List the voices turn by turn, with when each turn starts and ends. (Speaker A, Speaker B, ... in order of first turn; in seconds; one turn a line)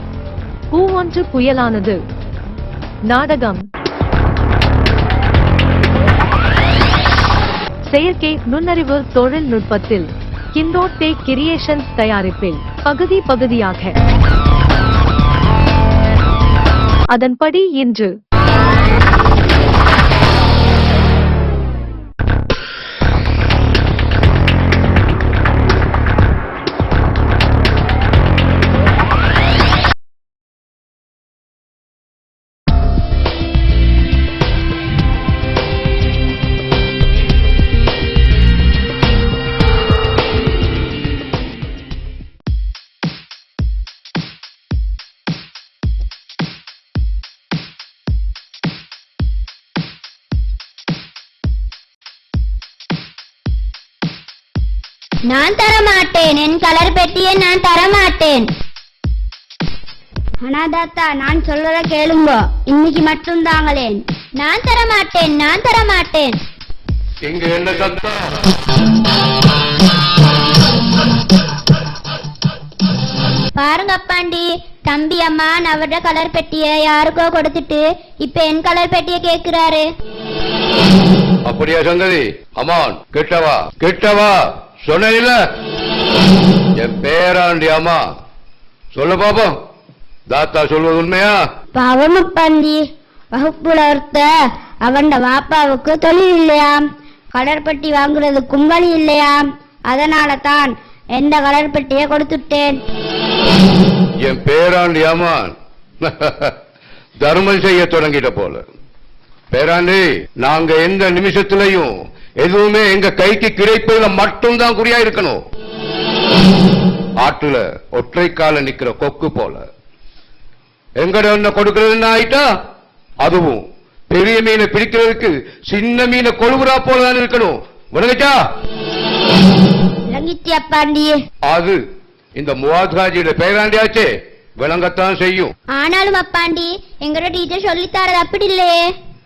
Speaker A: 0.7-2.0
Speaker A: 3.1-3.7
Speaker A: 7.9-14.0
Speaker A: 17.1-18.1
Speaker B: 55.3-58.5
Speaker B: 60.4-66.4
Speaker C: 67.2-68.4
Speaker B: 73.6-79.9
Speaker C: 81.5-85.4
Speaker C: 86.8-88.0
Speaker C: 88.9-89.6
Speaker C: 90.3-91.4
Speaker B: 91.8-94.3
Speaker B: 94.8-96.8
Speaker B: 97.3-102.8
Speaker C: 104.2-106.5
Speaker C: 107.2-108.7
Speaker C: 109.5-115.4
Speaker C: 117.2-119.6
Speaker C: 121.0-122.5
Speaker C: 123.2-128.4
Speaker B: 130.1-131.2
Speaker C: 131.5-131.8
Speaker C: 132.4-135.5
Speaker B: 135.8-138.8